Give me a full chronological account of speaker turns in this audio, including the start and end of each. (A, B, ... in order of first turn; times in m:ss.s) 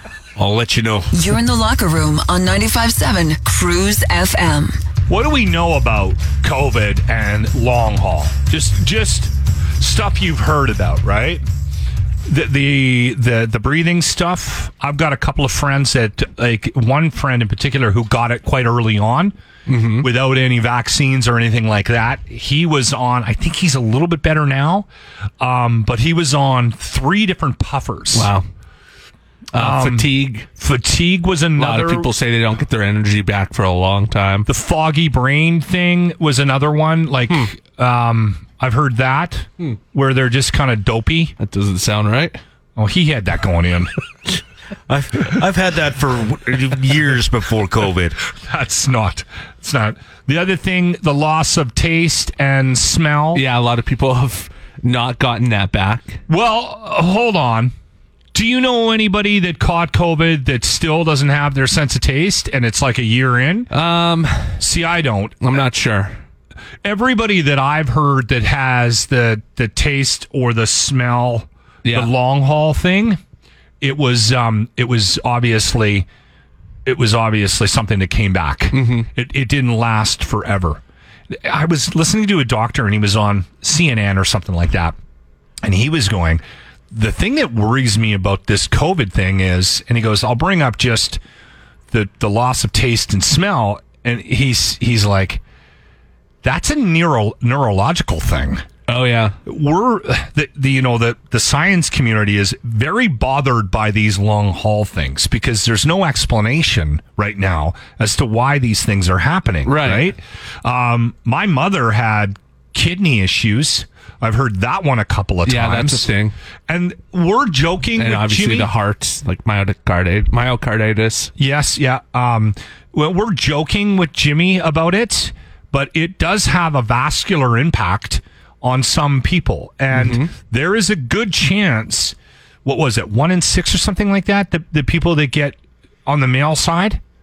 0:00.4-0:01.1 A
0:01.1-0:04.8 B
0:05.1-0:11.4 C
0:12.2-0:19.3 C
0:19.7-0:20.1 D
0:20.0-0:24.9 C
0:25.4-0:28.3 C
0:28.1-0:28.4 D
0:29.5-0:30.5 D
0:29.6-0:32.1 C
0:31.6-0:34.5 D
0:34.4-0:41.3 C
0:41.4-0:42.4 D
0:42.8-0:43.9 C
0:44.9-0:48.2 A
0:48.4-0:53.4 C
0:53.3-0:56.2 D
0:56.3-0:57.7 C
0:58.3-1:03.7 C
1:03.7-1:04.6 D
1:04.6-1:05.4 C
1:05.4-1:06.2 D
1:06.8-1:13.2 C
1:11.8-1:12.1 D
1:13.8-1:16.1 C
1:16.8-1:25.0 C
1:18.7-1:19.1 D
1:25.6-1:31.2 C
1:31.9-1:35.4 C
1:36.4-1:38.6 C
1:38.9-1:39.4 D
1:39.4-1:56.1 C
1:49.6-1:50.1 D
1:55.4-1:56.3 D
1:56.7-1:58.7 C
1:58.0-2:01.3 D
2:01.4-2:17.0 C
2:09.9-2:10.3 D